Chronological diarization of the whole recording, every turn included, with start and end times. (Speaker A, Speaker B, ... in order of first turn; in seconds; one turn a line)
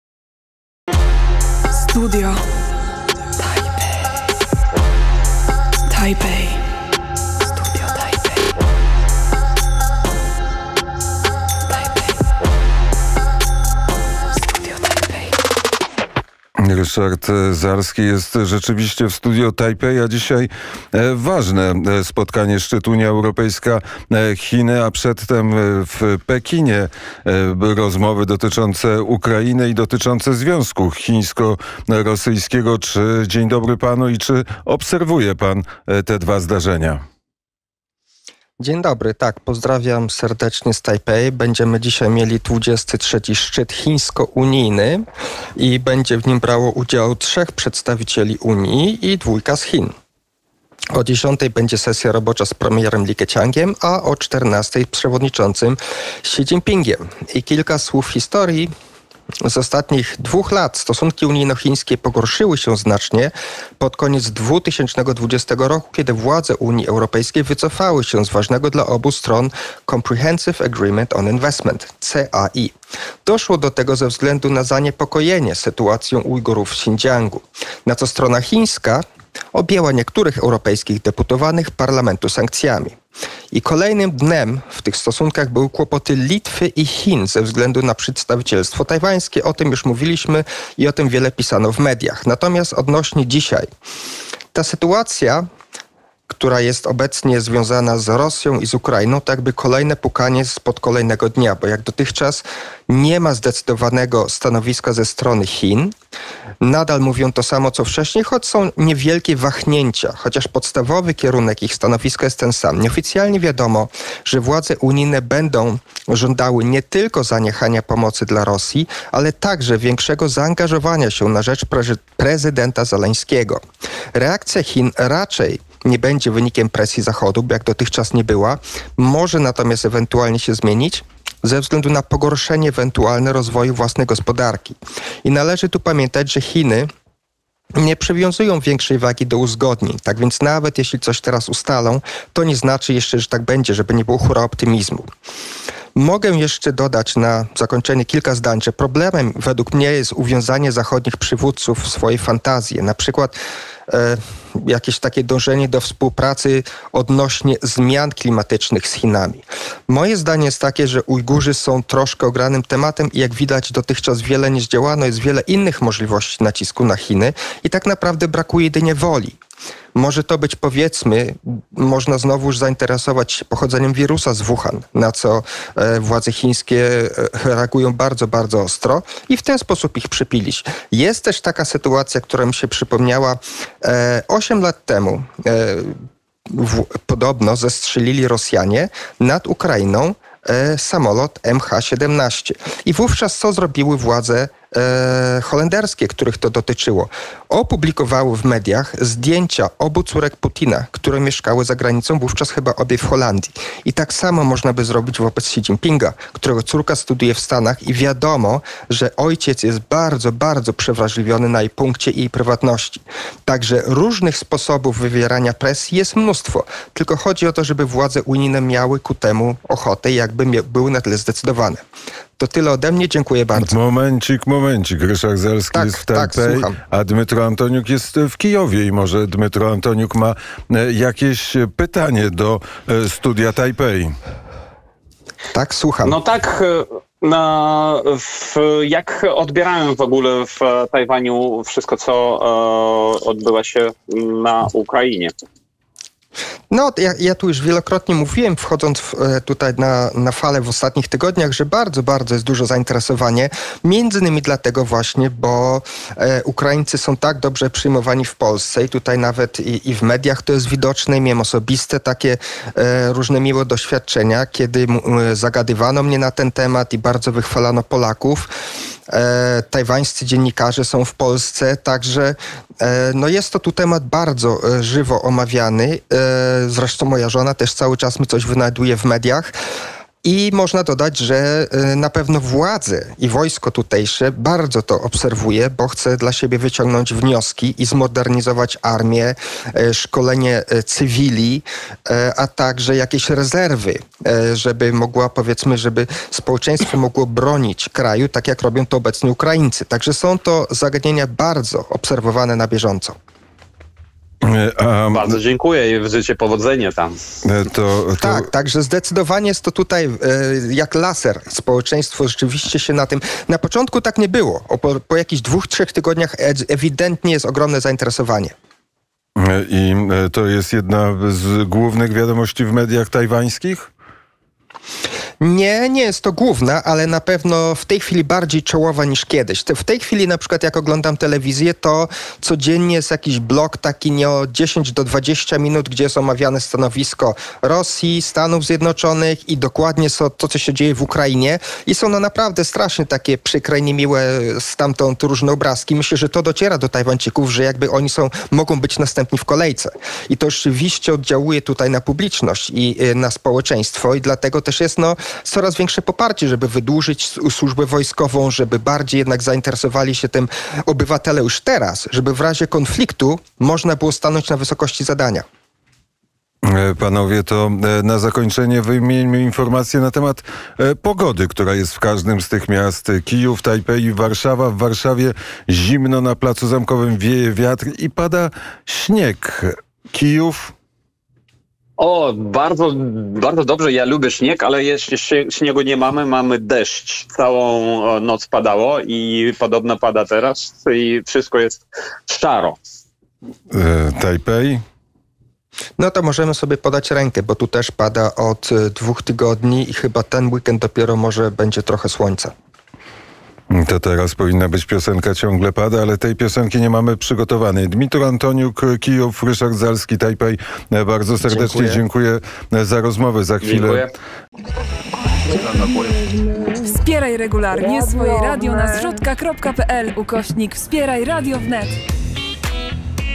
Speaker A: 1.9-2.4
Speaker A: 3.4-3.8
Speaker A: 5.9-6.6
Speaker A: 7.6-8.3
Speaker A: 14.6-15.3
Speaker B: 16.6-37.0
Speaker C: 38.6-45.0
Speaker C: 45.6-49.9
Speaker C: 50.9-58.7
Speaker C: 59.4-72.7
Speaker C: 73.2-83.0
Speaker C: 83.5-93.7
Speaker C: 94.5-95.5
Speaker C: 96.3-105.9
Speaker C: 106.6-123.6
Speaker C: 124.2-136.9
Speaker C: 137.8-145.1
Speaker C: 145.9-153.4
Speaker C: 153.9-169.4
Speaker C: 169.9-185.9
Speaker C: 186.5-221.8
Speaker C: 222.4-223.8
Speaker B: 223.6-234.1
Speaker C: 225.7-226.8
Speaker C: 235.5-236.2
Speaker D: 236.0-245.3
Speaker C: 246.7-268.5
Speaker C: 269.1-279.5
Speaker C: 280.2-303.2
Speaker B: 304.5-305.4
Speaker D: 305.1-307.2
Speaker B: 307.4-308.4
Speaker C: 308.2-318.5
Speaker B: 319.4-323.9
Speaker C: 325.4-365.4
Speaker B: 366.7-380.7
Speaker D: 382.0-392.8
Speaker B: 393.7-394.8
Speaker C: 396.0-402.5
Speaker B: 403.7-414.1
Speaker C: 411.4-412.0
Speaker D: 413.6-414.1
Speaker D: 415.6-416.2
Speaker A: 416.8-422.0